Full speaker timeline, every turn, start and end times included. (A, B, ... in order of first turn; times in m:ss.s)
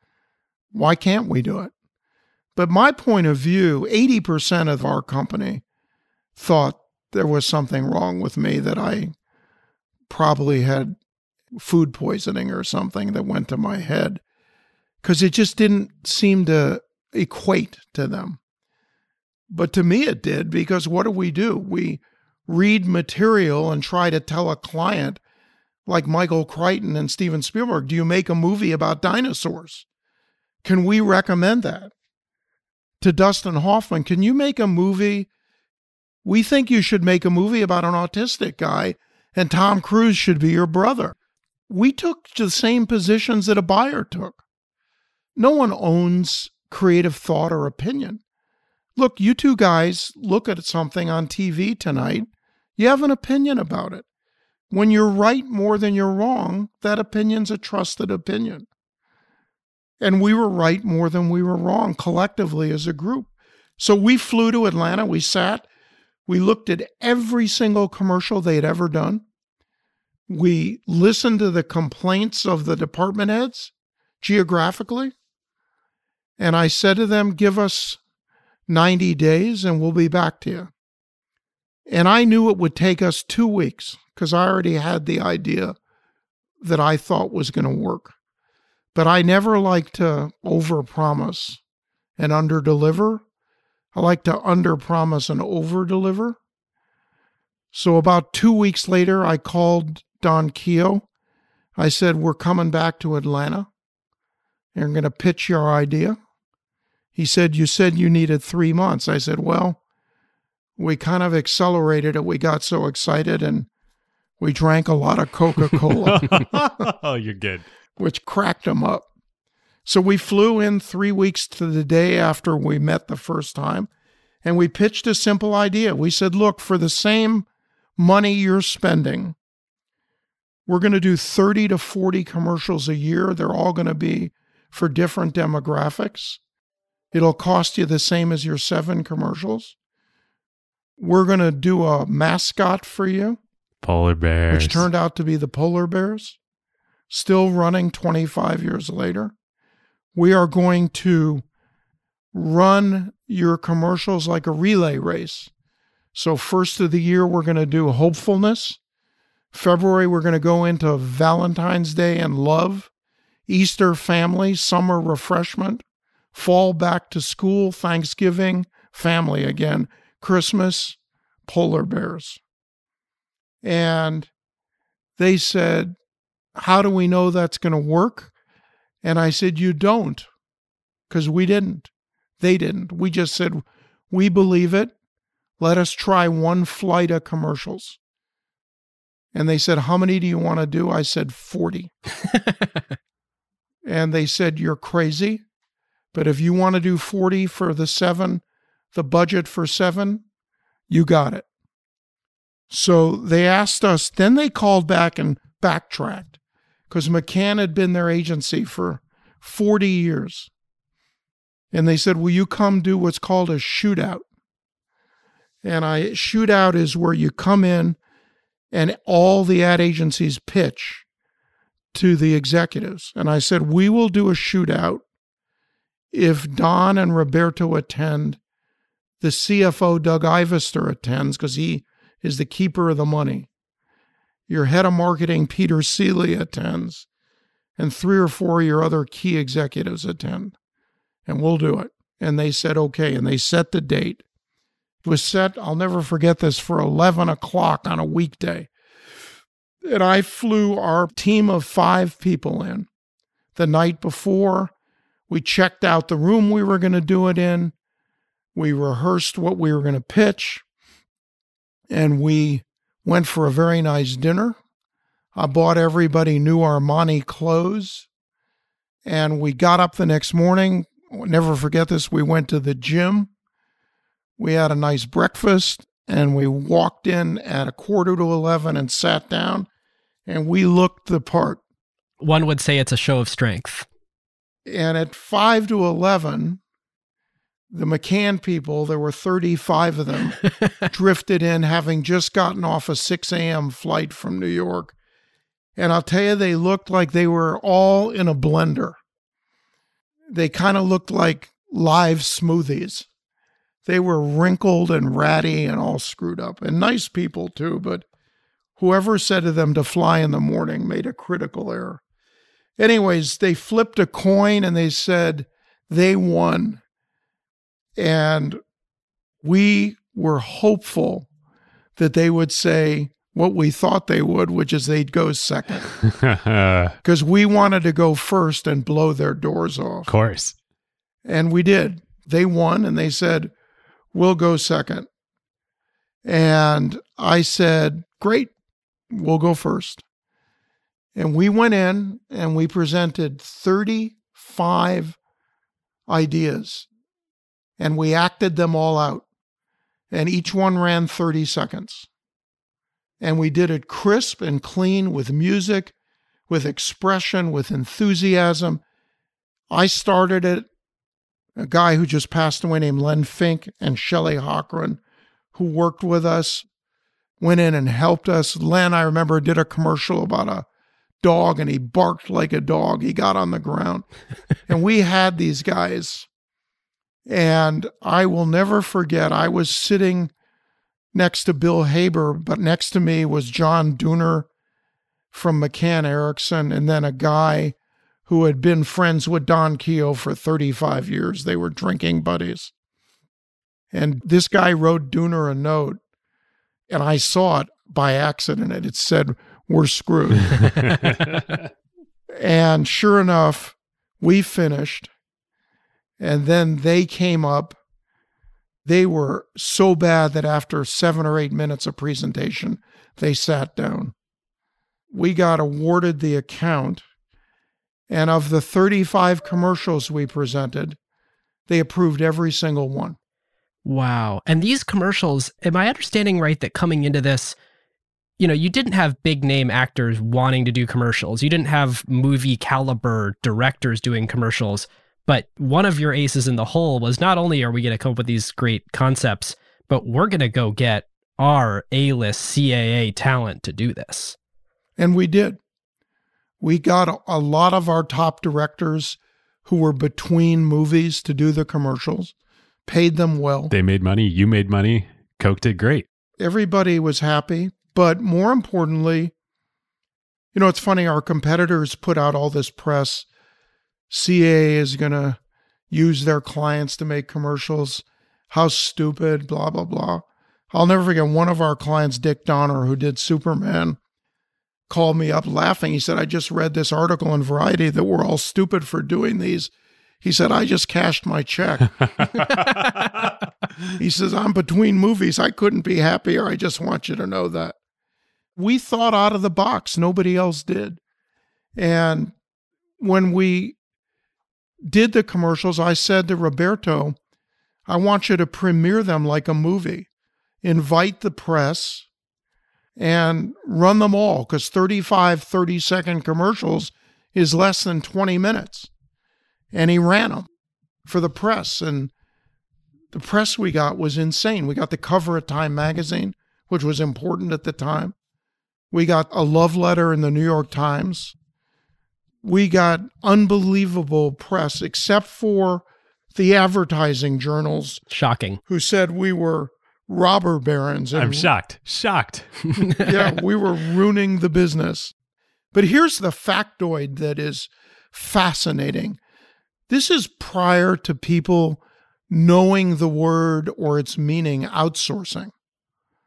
0:00.7-0:01.7 A
0:02.5-0:05.6 A
0:06.4-0:09.1 A
0:10.1-0:11.0 A
0:11.5-0:14.2 A
0:15.0-0:18.4 A
0:19.5-0:25.2 A
0:25.8-0:29.8 A
0:30.6-0:31.9 A
0:33.0-0:35.3 A
0:36.2-0:41.1 A
0:41.7-0:44.4 A
0:45.4-0:48.2 A
0:49.0-0:54.0 A
0:54.7-0:58.7 A
1:00.0-1:05.6 A
1:06.3-1:09.2 A
1:10.3-1:15.1 A
1:16.4-1:18.0 A
1:18.7-1:20.7 A
1:21.9-1:25.8 A
1:26.6-1:28.1 A
1:28.9-1:31.6 A
1:32.2-1:33.2 A
1:33.9-1:36.4 A
1:37.7-1:41.0 A
1:41.8-1:43.7 A
1:44.7-1:46.2 A
1:47.1-1:49.8 A
1:50.8-1:53.7 A
1:54.4-1:56.8 A
1:56.0-1:57.6 B
1:58.0-1:59.1 A
1:59.8-2:03.9 A
2:04.4-2:09.3 A
2:10.7-2:16.4 A
2:17.1-2:19.7 A
2:21.0-2:23.4 A
2:23.8-2:24.9 B
2:24.5-2:26.4 A
2:27.1-2:29.3 A
2:30.1-2:31.4 A
2:32.3-2:35.5 A
2:36.1-2:38.8 A
2:39.5-2:42.9 A
2:43.5-2:45.8 A
2:46.3-2:52.4 A
2:53.6-2:54.3 A
2:55.2-2:56.0 A
2:56.6-2:58.3 A
2:59.0-3:00.3 A
3:01.1-3:04.9 A
3:05.6-3:08.0 A
3:09.3-3:11.9 A
3:13.8-3:15.4 A
3:16.1-3:18.4 A
3:18.9-3:20.2 A
3:20.9-3:21.4 A
3:22.7-3:26.4 A
3:26.9-3:30.5 A
3:31.7-3:34.2 A
3:35.6-3:38.0 A
3:38.7-3:41.0 A
3:41.9-3:45.0 A
3:46.1-3:48.4 A
3:49.2-3:53.5 A
3:54.5-3:57.0 A
3:57.8-4:00.5 A
4:01.3-4:04.2 A
4:05.0-4:08.7 A
4:09.8-4:12.9 A
4:13.6-4:14.7 A
4:15.3-4:17.7 A
4:18.5-4:20.6 A
4:21.9-4:24.6 A
4:25.3-4:28.1 A
4:29.0-4:33.3 A
4:34.4-4:39.7 A
4:40.2-4:41.6 A
4:42.2-4:43.9 C
4:44.6-4:46.6 A
4:47.7-4:54.9 A
4:55.8-4:59.0 A
5:00.3-5:03.1 A
5:03.8-5:08.0 A
5:08.8-5:12.0 A
5:12.8-5:16.8 A
5:18.0-5:18.6 A
5:19.4-5:21.3 A
5:22.0-5:25.8 A
5:26.0-5:26.9 B
5:27.0-5:30.1 A
5:30.1-5:30.6 B
5:31.2-5:33.5 A
5:34.1-5:35.1 A
5:36.2-5:38.5 A
5:39.1-5:40.0 A
5:41.1-5:45.2 A
5:46.1-5:46.9 A
5:47.8-5:49.2 A
5:50.1-5:52.1 A
5:53.2-5:55.9 A
5:56.5-5:58.8 A
5:59.7-6:00.7 A
6:01.6-6:05.0 A
6:05.5-6:06.6 A
6:07.4-6:10.6 A
6:11.2-6:14.1 A
6:14.7-6:16.3 A
6:17.2-6:20.3 A
6:21.1-6:24.5 A
6:25.3-6:27.7 A
6:28.3-6:32.7 A
6:33.9-6:36.0 A
6:36.9-6:40.9 A
6:40.6-6:41.6 B
6:42.3-6:45.1 A
6:46.2-6:47.8 A
6:48.8-6:54.1 A
6:55.1-6:57.0 A
6:58.1-7:01.0 A
7:01.7-7:03.2 A
7:03.8-7:07.5 C
7:08.4-7:24.4 C
7:25.0-7:25.6 A
7:26.6-7:32.3 A
7:32.8-7:33.7 A
7:33.7-7:36.0 B
7:36.4-7:39.3 A
7:40.5-7:43.3 A
7:44.1-7:45.4 A
7:45.9-7:54.0 A
7:54.9-7:59.7 A
8:00.2-8:02.3 A
8:04.0-8:07.8 A
8:08.6-8:11.0 A
8:11.8-8:12.3 A
8:13.0-8:13.8 A
8:14.8-8:17.2 A
8:17.9-8:20.1 A
8:20.6-8:22.1 A
8:23.0-8:28.9 A
8:29.7-8:30.5 A
8:31.0-8:32.1 A
8:33.1-8:38.1 A
8:38.9-8:41.3 A
8:42.4-8:48.0 A
8:48.1-8:48.6 C
8:48.6-8:51.5 A
8:51.1-8:52.7 B
8:52.9-8:55.1 A
8:55.7-8:59.2 A
8:59.9-9:05.5 A